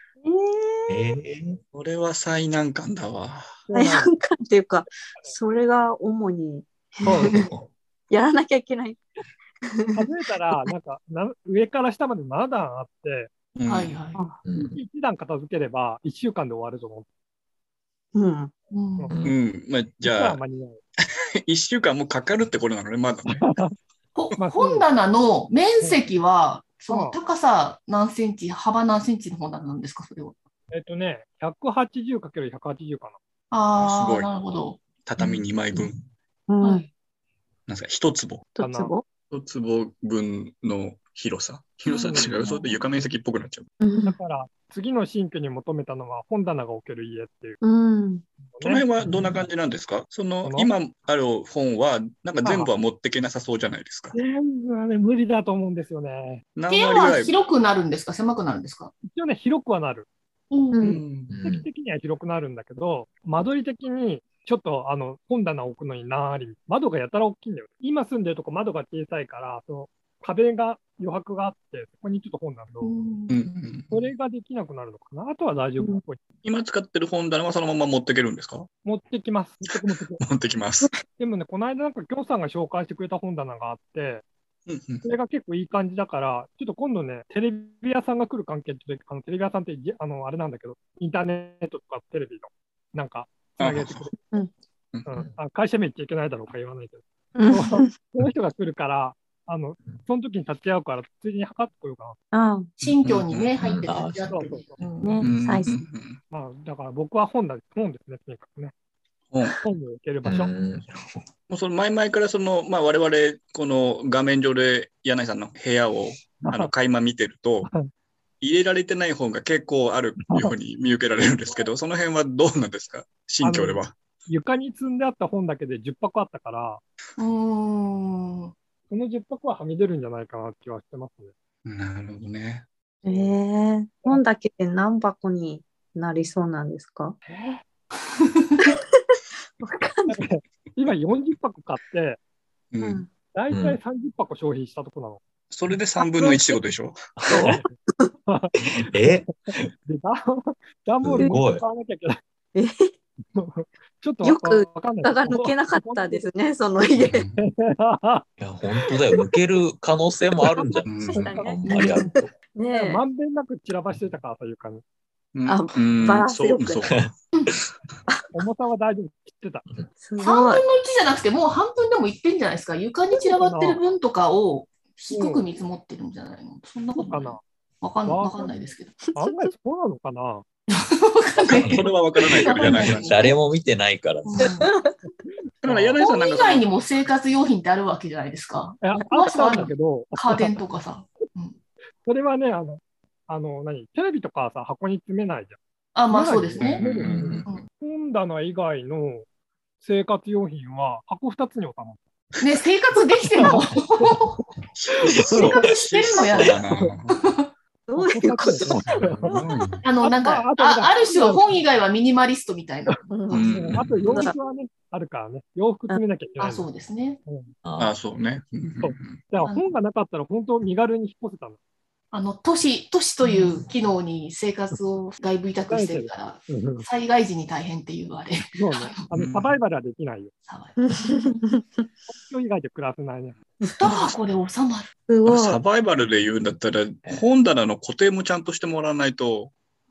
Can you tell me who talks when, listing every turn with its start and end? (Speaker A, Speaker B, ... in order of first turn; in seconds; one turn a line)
Speaker A: 0.2-1.1
Speaker B: 0.9-1.6
Speaker C: 1.7-3.6
Speaker D: 3.7-4.1
Speaker A: 3.7-7.5
Speaker D: 7.1-7.5
Speaker B: 7.2-7.7
Speaker A: 8.1-9.0
Speaker A: 9.7-10.7
Speaker D: 9.9-13.3
Speaker C: 13.6-14.0
Speaker E: 13.7-14.2
Speaker B: 14.4-14.8
Speaker D: 14.6-17.1
Speaker A: 18.1-18.5
Speaker E: 18.7-19.2
Speaker C: 19.2-20.4
Speaker D: 20.0-20.8
Speaker C: 21.4-23.5
Speaker D: 23.3-23.8
Speaker E: 24.1-30.4
Speaker D: 24.4-24.9
Speaker D: 26.9-27.2
Speaker D: 30.7-33.2
Speaker E: 33.5-34.8
Speaker C: 33.8-34.3
Speaker C: 35.0-36.0
Speaker A: 36.5-36.9
Speaker E: 36.6-36.9
Speaker C: 37.7-38.5
Speaker A: 38.6-39.0
Speaker D: 38.6-38.9
Speaker C: 39.3-43.7
Speaker A: 43.8-44.2
Speaker D: 44.0-47.6
Speaker A: 47.6-48.2
Speaker D: 48.6-48.9
Speaker C: 48.6-54.1
Speaker B: 49.0-49.4
Speaker D: 50.4-50.7
Speaker D: 52.4-52.7
Speaker D: 54.1-56.4
Speaker C: 56.5-57.4
Speaker E: 56.7-58.9
Speaker D: 59.0-60.1
Speaker E: 60.5-61.0
Speaker A: 60.7-61.0
Speaker C: 60.9-61.3
Speaker D: 60.9-73.0
Speaker B: 61.3-61.7
Speaker E: 72.8-73.4
Speaker C: 73.3-74.1
Speaker D: 73.9-76.2
Speaker C: 76.4-78.7
Speaker D: 78.8-80.2
Speaker C: 80.2-81.0
Speaker D: 81.2-84.2
Speaker C: 84.7-85.1
Speaker D: 85.0-94.2
Speaker C: 93.6-94.1
Speaker C: 94.9-95.2
Speaker D: 95.1-102.2
Speaker A: 97.4-97.9
Speaker A: 102.3-102.7
Speaker E: 102.8-105.2
Speaker C: 102.8-103.5
Speaker B: 103.6-104.5
Speaker D: 104.2-104.7
Speaker A: 105.0-105.8
Speaker C: 105.2-106.2
Speaker D: 106.3-108.7
Speaker C: 109.3-109.6
Speaker D: 109.6-110.5
Speaker B: 110.2-111.2
Speaker C: 111.5-117.7
Speaker D: 116.4-116.7
Speaker D: 117.7-117.9
Speaker C: 118.4-124.0
Speaker D: 120.3-120.5
Speaker D: 123.4-126.8
Speaker E: 127.2-128.5
Speaker D: 128.9-131.3
Speaker C: 131.7-132.7
Speaker A: 133.0-137.2
Speaker D: 137.3-137.6
Speaker E: 138.2-138.8
Speaker A: 138.6-140.2
Speaker D: 140.1-142.2
Speaker C: 142.7-143.1
Speaker A: 142.8-143.1
Speaker D: 143.3-145.2
Speaker B: 143.5-143.8
Speaker C: 145.5-147.0
Speaker A: 146.0-146.6
Speaker B: 147.2-147.6
Speaker A: 147.3-148.1
Speaker D: 147.3-147.7
Speaker D: 148.3-149.2
Speaker B: 148.8-149.7
Speaker D: 149.9-152.2
Speaker B: 151.0-151.6
Speaker A: 152.6-152.9
Speaker D: 153.3-156.3
Speaker A: 154.2-157.2
Speaker C: 157.0-157.5
Speaker D: 157.4-158.2
Speaker B: 158.4-162.3
Speaker A: 160.4-163.0
Speaker C: 160.9-161.4
Speaker E: 161.6-162.1
Speaker D: 162.7-164.8
Speaker C: 165.3-167.1
Speaker A: 165.5-166.9
Speaker E: 167.3-167.6
Speaker D: 168.3-169.7
Speaker A: 170.0-170.6
Speaker E: 170.2-179.0
Speaker D: 173.3-173.8
Speaker D: 175.1-175.4
Speaker D: 177.0-177.4
Speaker D: 178.1-178.6
Speaker A: 179.1-179.5
Speaker D: 179.2-180.4
Speaker E: 180.7-183.3
Speaker B: 181.5-181.9
Speaker C: 181.5-183.2
Speaker A: 182.2-182.9
Speaker B: 182.6-184.6
Speaker E: 184.3-184.7
Speaker A: 184.4-185.1
Speaker C: 185.6-186.7
Speaker D: 185.7-186.0
Speaker E: 186.0-191.6
Speaker D: 188.8-190.6
Speaker D: 192.0-195.6
Speaker E: 195.9-196.8
Speaker D: 196.1-199.3
Speaker C: 196.6-197.6
Speaker B: 196.8-197.5
Speaker D: 199.8-202.0
Speaker E: 202.4-204.4
Speaker D: 203.3-204.1
Speaker C: 204.8-207.2
Speaker E: 205.3-207.5
Speaker A: 207.9-208.8
Speaker D: 207.9-209.4
Speaker B: 209.0-209.8
Speaker C: 209.2-209.8
Speaker E: 209.8-213.2
Speaker D: 210.0-211.6
Speaker A: 213.1-214.3
Speaker C: 213.3-214.3
Speaker D: 213.4-216.7
Speaker E: 216.4-217.2
Speaker D: 217.3-217.5
Speaker B: 217.7-217.9
Speaker C: 217.8-219.3
Speaker D: 218.8-221.6
Speaker E: 222.1-229.1
Speaker D: 225.7-226.9
Speaker D: 228.5-230.3
Speaker C: 229.1-229.6
Speaker E: 230.5-231.3
Speaker A: 230.8-231.9
Speaker D: 232.1-233.4
Speaker E: 233.7-234.9
Speaker A: 235.1-235.6
Speaker C: 235.3-239.5